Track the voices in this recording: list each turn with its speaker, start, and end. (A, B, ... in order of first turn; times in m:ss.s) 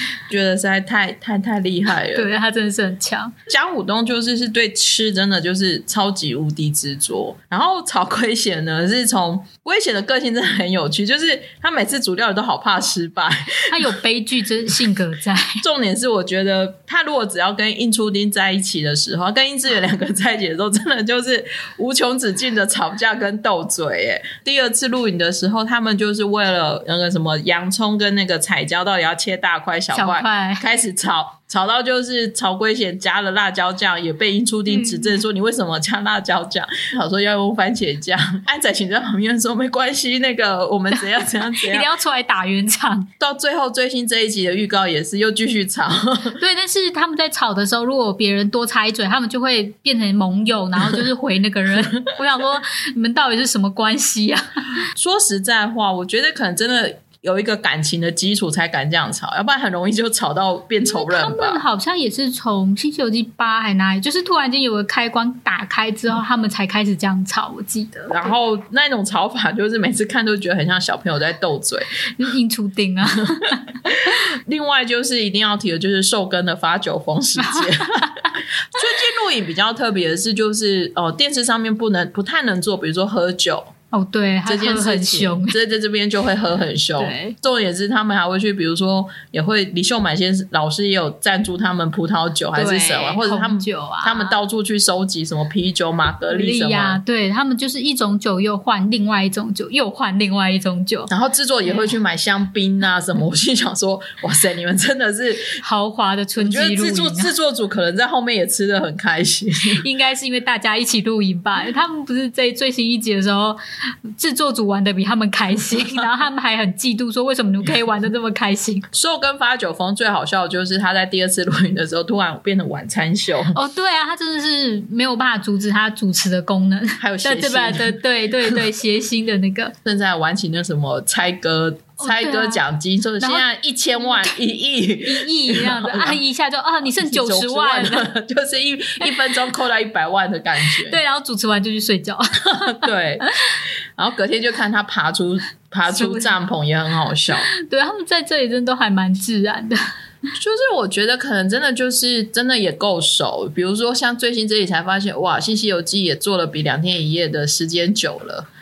0:00.3-0:02.3 A
0:02.1-0:03.3 B
0:03.5-0:13.8 A
0:13.7-0:15.6 B
0:15.6-0:41.9 A
0:29.9-0:30.6 B
0:34.7-0:35.2 B
0:40.9-0:43.1 B
0:43.2-0:46.4 A
0:46.4-0:54.4 B
0:55.0-1:01.6 A
1:00.9-1:08.2 B
1:08.1-1:12.0 A
1:12.2-1:13.8 B
1:13.8-1:23.7 A
1:17.4-1:18.3 B
1:23.9-1:25.6 B
1:24.5-1:37.0 A
1:27.0-1:27.4 B
1:32.5-1:34.4 B
1:36.3-1:41.1 B
1:41.1-1:45.6 A
1:41.6-1:42.0 B
1:45.6-1:47.3 B
1:46.4-1:49.8 A
1:49.8-1:53.6 B
1:54.1-1:58.8 B
1:58.9-2:03.6 A
2:03.5-2:09.7 B
2:07.0-2:08.6 A
2:09.8-2:16.2 A
2:12.0-2:12.6 B
2:13.2-2:13.5 B
2:14.0-2:14.4 B
2:15.0-2:18.1 B
2:17.0-2:21.0 A
2:19.0-2:19.4 B
2:20.6-2:22.9 B
2:22.6-2:23.3 A
2:24.0-2:27.5 A
2:25.9-2:26.4 B
2:27.5-2:29.8 B
2:30.4-2:38.5 A